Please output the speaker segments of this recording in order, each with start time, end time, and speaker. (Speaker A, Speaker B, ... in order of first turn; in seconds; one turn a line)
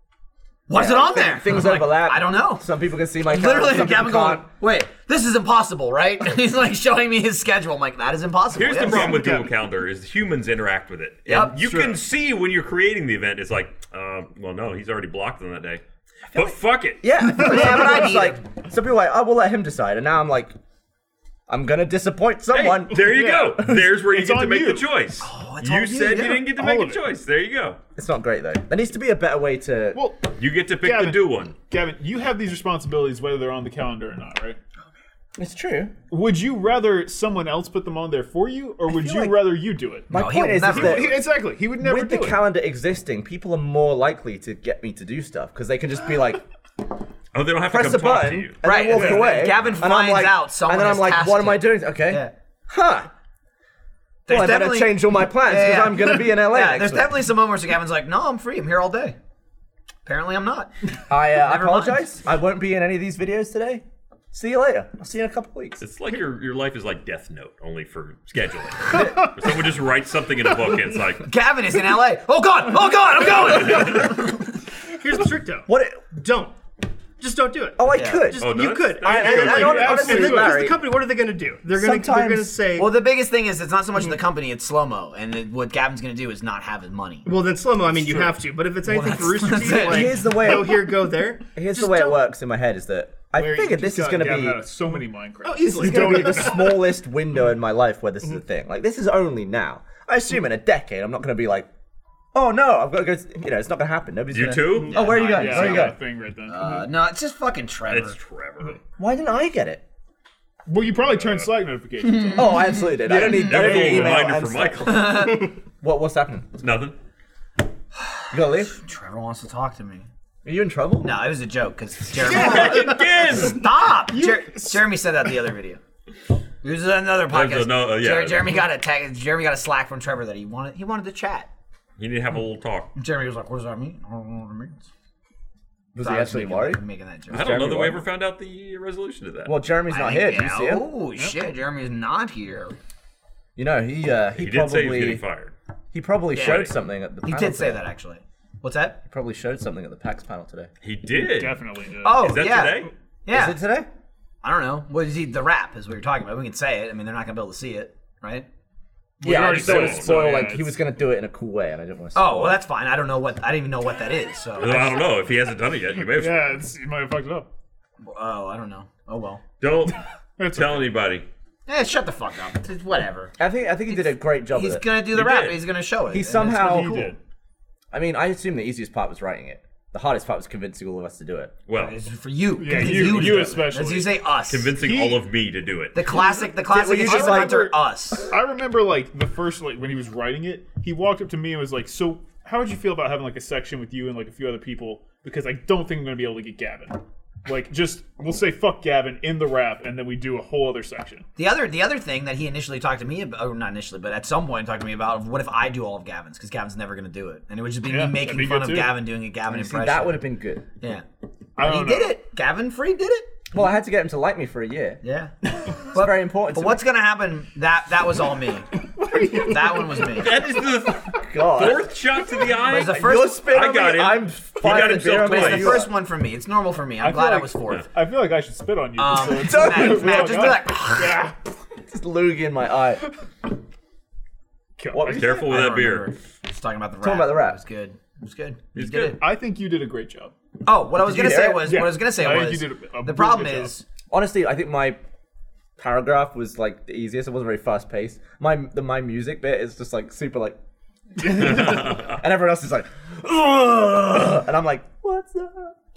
Speaker A: 0.7-2.6
Speaker B: 0.7-4.5
Speaker A: 3.2-9.2
Speaker C: 8.5-17.0
Speaker D: 8.9-9.5
Speaker A: 11.2-12.0
Speaker B: 16.3-20.5
Speaker A: 17.2-18.4
Speaker B: 21.5-23.7
Speaker C: 22.5-27.8
Speaker E: 22.9-24.9
Speaker A: 25.2-26.5
Speaker E: 26.5-27.0
Speaker B: 27.9-30.1
Speaker E: 29.9-34.6
Speaker C: 30.4-31.5
Speaker B: 35.4-35.9
Speaker E: 36.1-40.1
Speaker B: 38.9-39.5
Speaker B: 40.1-46.4
Speaker A: 40.1-41.1
Speaker E: 40.6-42.4
Speaker C: 47.3-48.6
Speaker B: 47.6-53.1
Speaker A: 48.6-52.3
Speaker E: 48.9-49.4
Speaker A: 54.3-59.2
Speaker B: 54.3-57.1
Speaker A: 60.0-60.7
Speaker B: 61.1-65.8
Speaker A: 61.3-62.0
Speaker C: 65.8-71.3
Speaker B: 68.9-69.3
Speaker A: 71.2-74.4
Speaker D: 75.0-76.5
Speaker B: 75.7-76.0
Speaker D: 77.2-82.9
Speaker B: 77.8-80.8
Speaker A: 77.9-78.3
Speaker C: 78.4-80.1
Speaker E: 79.0-80.7
Speaker B: 81.7-82.5
Speaker A: 82.7-87.3
Speaker D: 87.2-92.2
Speaker E: 87.9-88.3
Speaker A: 88.8-90.4
Speaker B: 89.8-91.0
Speaker B: 91.5-94.7
Speaker E: 93.3-96.7
Speaker D: 95.4-96.8
Speaker B: 95.8-101.7
Speaker B: 102.3-106.0
Speaker C: 104.3-105.8
Speaker A: 104.9-105.9
Speaker E: 105.1-106.9
Speaker A: 106.5-108.2
Speaker C: 107.9-108.8
Speaker B: 109.0-109.8
Speaker E: 110.7-112.8
Speaker B: 112.3-116.6
Speaker A: 113.0-114.2
Speaker C: 113.1-115.5
Speaker A: 114.8-115.5
Speaker C: 116.6-117.0
Speaker B: 118.3-118.7
Speaker A: 118.7-120.1
Speaker B: 120.4-121.1
Speaker A: 121.0-125.8
Speaker C: 122.2-123.7
Speaker E: 122.3-123.0
Speaker E: 124.1-124.8
Speaker A: 126.6-131.5
Speaker C: 127.3-128.6
Speaker C: 132.0-132.9
Speaker A: 132.9-134.8
Speaker B: 135.9-138.1
Speaker A: 136.0-137.6
Speaker C: 137.3-139.6
Speaker B: 139.4-140.8
Speaker A: 139.9-142.7
Speaker B: 143.6-145.2
Speaker C: 144.3-145.5
Speaker B: 145.9-147.8
Speaker A: 146.3-149.0
Speaker B: 149.1-150.7
Speaker C: 150.8-152.9
Speaker E: 151.1-152.4
Speaker A: 152.0-153.6
Speaker B: 153.3-153.9
Speaker A: 154.4-158.5
Speaker E: 159.2-160.8
Speaker B: 159.2-162.6
Speaker C: 159.3-160.4
Speaker A: 162.1-165.0
Speaker C: 164.6-166.6
Speaker E: 166.2-167.5
Speaker A: 168.0-169.4
Speaker C: 169.6-171.3
Speaker E: 170.4-170.9
Speaker A: 171.7-173.3
Speaker B: 173.4-174.9
Speaker A: 173.9-177.1
Speaker C: 175.1-175.6
Speaker B: 176.1-176.9
Speaker E: 176.4-177.2
Speaker B: 177.9-181.5
Speaker C: 181.7-182.0
Speaker A: 181.7-184.7
Speaker E: 182.6-184.1
Speaker C: 182.7-183.7
Speaker C: 184.5-186.2
Speaker E: 184.7-185.2
Speaker A: 185.9-188.3
Speaker B: 186.7-187.7
Speaker E: 186.9-201.2
Speaker A: 201.3-210.2
Speaker E: 207.9-208.9
Speaker B: 209.5-210.7
Speaker E: 211.6-212.2
Speaker A: 211.6-213.3
Speaker B: 213.5-215.0
Speaker A: 215.0-220.3
Speaker B: 215.9-216.9
Speaker E: 219.0-220.1
Speaker C: 220.1-225.8
Speaker B: 221.0-221.9
Speaker A: 222.6-223.4
Speaker B: 222.7-225.9
Speaker A: 224.6-227.9
Speaker E: 227.0-231.3
Speaker A: 228.9-231.3
Speaker B: 229.4-230.6
Speaker B: 231.8-233.0
Speaker E: 234.8-235.5
Speaker B: 234.9-235.4
Speaker C: 234.9-236.1
Speaker A: 235.1-239.2
Speaker B: 237.0-237.6
Speaker E: 238.8-240.3
Speaker C: 238.8-239.1
Speaker A: 240.6-243.8
Speaker B: 241.0-241.8
Speaker E: 241.6-243.7
Speaker B: 244.1-245.0
Speaker B: 245.8-250.6
Speaker B: 251.2-255.7